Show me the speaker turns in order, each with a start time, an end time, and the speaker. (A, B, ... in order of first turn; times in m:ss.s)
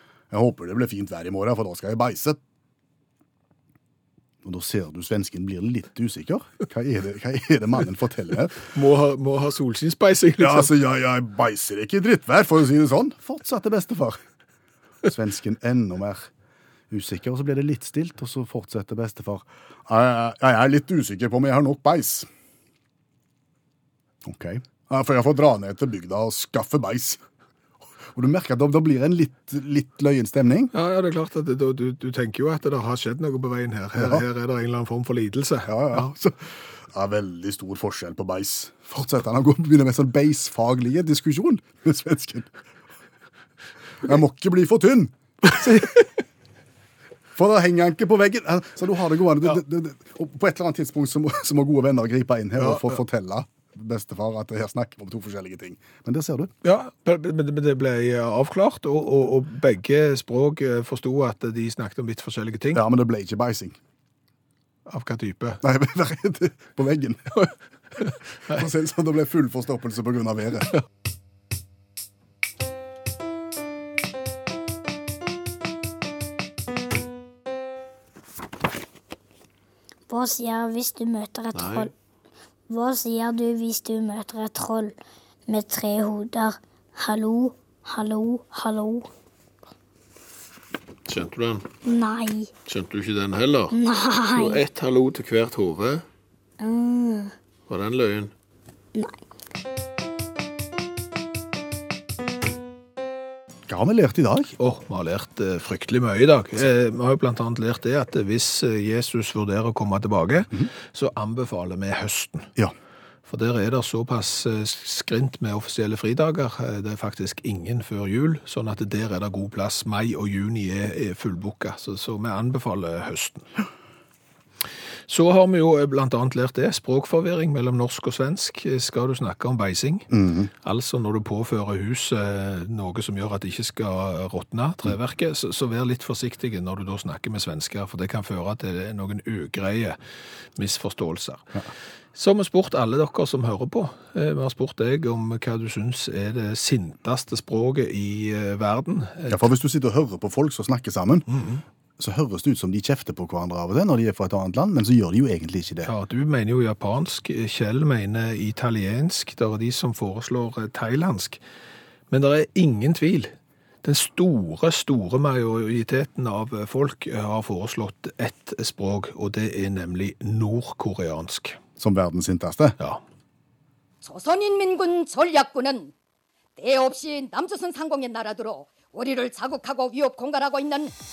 0:00.3-0:02.4 A
0:04.4-0:08.6 A
0:08.7-0:10.8 B
0:10.4-0:14.2 A
0:15.0-0:16.3 A
0:16.9-0:22.3 A
0:24.2-0:27.2 A
0:28.1-0:30.7 A
0:30.7-0:36.1 B
0:34.0-0:34.2 A
0:35.6-0:42.5 A
0:44.0-0:46.1 A
0:45.6-0:45.9 B
0:47.4-0:56.5 A
0:52.6-0:53.0 B
0:56.6-1:02.8 B
1:02.7-1:03.8 A
1:04.9-1:05.6 B
1:05.6-1:07.5 A
1:08.5-1:10.7 A
1:20.1-1:21.9 C
1:22.7-1:24.9 C
1:25.5-1:29.1 C
1:31.1-1:31.6 D
1:31.8-1:32.5 C
1:32.7-1:33.6 D
1:33.7-1:34.6 C
1:34.5-1:34.9 D
1:34.6-1:35.8 B
1:35.4-1:36.0 D
1:36.6-1:37.3 C
1:37.7-1:38.3 D
1:43.7-1:44.5 A
1:44.6-1:52.5 B
1:53.3-2:03.5 B
2:05.1-2:20.0 B
2:10.1-2:10.5 A
2:20.6-2:21.6 B
2:22.1-2:29.4 B
2:29.3-2:31.3 A
2:31.3-2:31.6 B
2:32.0-2:35.9 A
2:35.8-2:41.4 B
2:42.1-2:43.3 B
2:43.8-2:51.6 B
2:51.8-2:52.8 A
2:54.0-2:55.9 E
2:56.6-3:00.9 E